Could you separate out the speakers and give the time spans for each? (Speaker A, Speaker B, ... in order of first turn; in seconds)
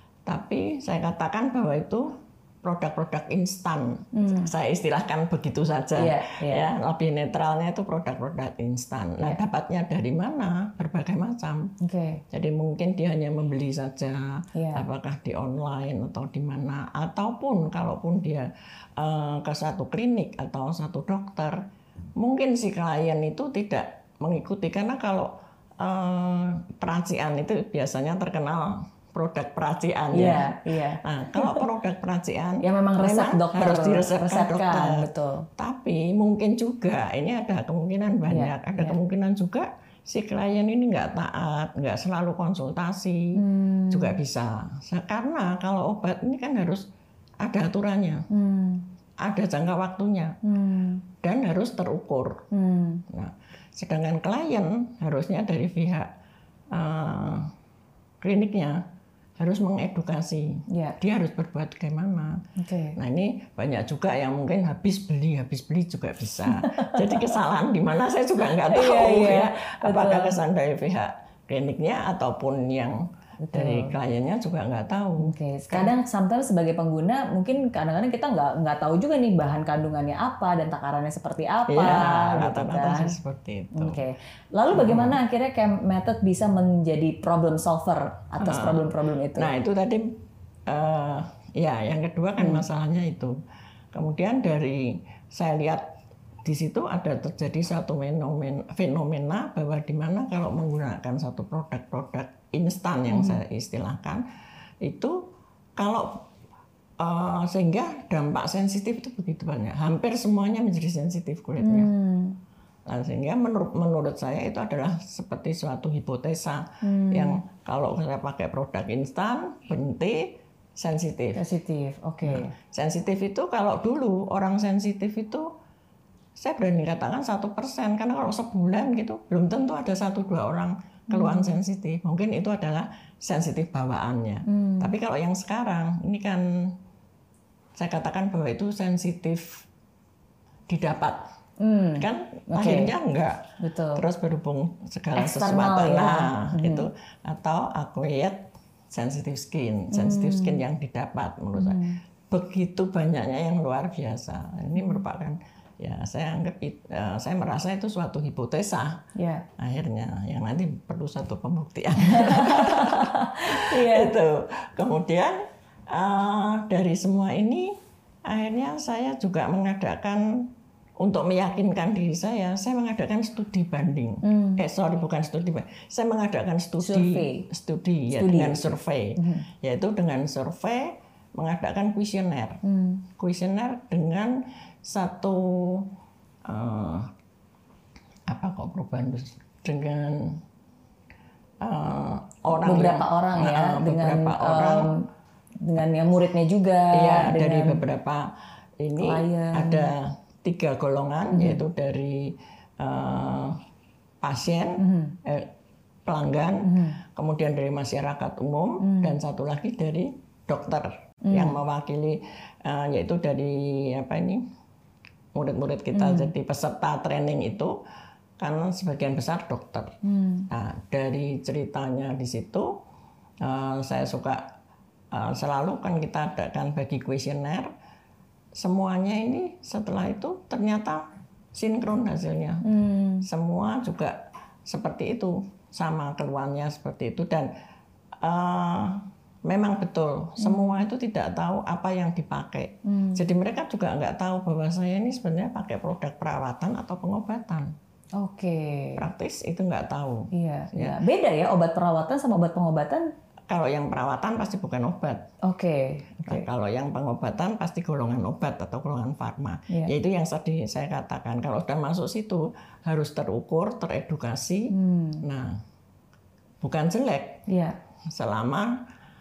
Speaker A: 0.3-11.7, 12.3-21.6, 22.2-46.9, 47.4-48.3, 49.2-50.4, 51.2-52.5, 53.1-56.1, 56.7-57.5, 58.2-58.8, 59.4-62.4, 63.0-75.9, 81.7-84.0, 84.7-85.2, 88.4-93.4, 93.9-95.9, 96.5-104.2, 104.8-106.3, 107.0-111.9, 112.9-121.4, 122.2-125.5, 126.4-136.7, 137.8-139.7, 140.7-141.3, 142.0-159.1, 159.6-165.4, 165.9-167.8, 168.3-170.5, 171.0-182.6, 183.2-185.9, 186.4-187.1, 188.3-190.4, 191.6-194.9, 196.9-203.6, 204.2-205.5, 206.1-214.4, 215.3-217.8, 218.4-220.0, 220.5-222.8, 223.4-224.5, 225.1-227.7, 228.6-232.7, 233.2-237.5, 238.2-247.7, 249.0-251.0, 253.5-255.3, 256.2-265.6, 266.6-267.5, 268.1-268.8
Speaker B: 4.1-4.5, 6.0-6.7, 11.8-12.2, 14.6-14.8, 30.1-31.6, 32.6-35.5, 38.3-39.0, 43.4-44.2, 48.3-48.9, 50.4-51.0, 52.5-53.0, 60.7-61.0, 62.6-63.0, 66.5-67.4, 68.5-70.4, 73.5-74.0, 75.2-83.2, 83.7-89.5, 92.4-92.7, 103.1-103.4, 111.6-112.4, 116.8-117.4, 121.4-122.5, 131.1-131.6, 134.5-134.9, 141.6-142.9, 143.6-144.0, 145.2-146.9, 149.9-150.6, 151.6-152.0, 154.8-155.0, 159.2-159.4, 162.0-164.1, 174.2-174.6, 176.8-177.5, 178.1-179.4, 182.6-183.0, 192.6-195.1, 195.7-197.8, 199.0-199.9, 201.3-201.6, 204.8-205.2, 206.6-207.0, 208.8-209.2, 211.3-211.6, 215.9-216.3, 220.0-220.5, 232.6-233.2, 240.4-240.8, 242.9-243.2, 248.2-249.0, 250.3-253.1, 255.4-256.5, 264.7-265.2, 267.5-267.8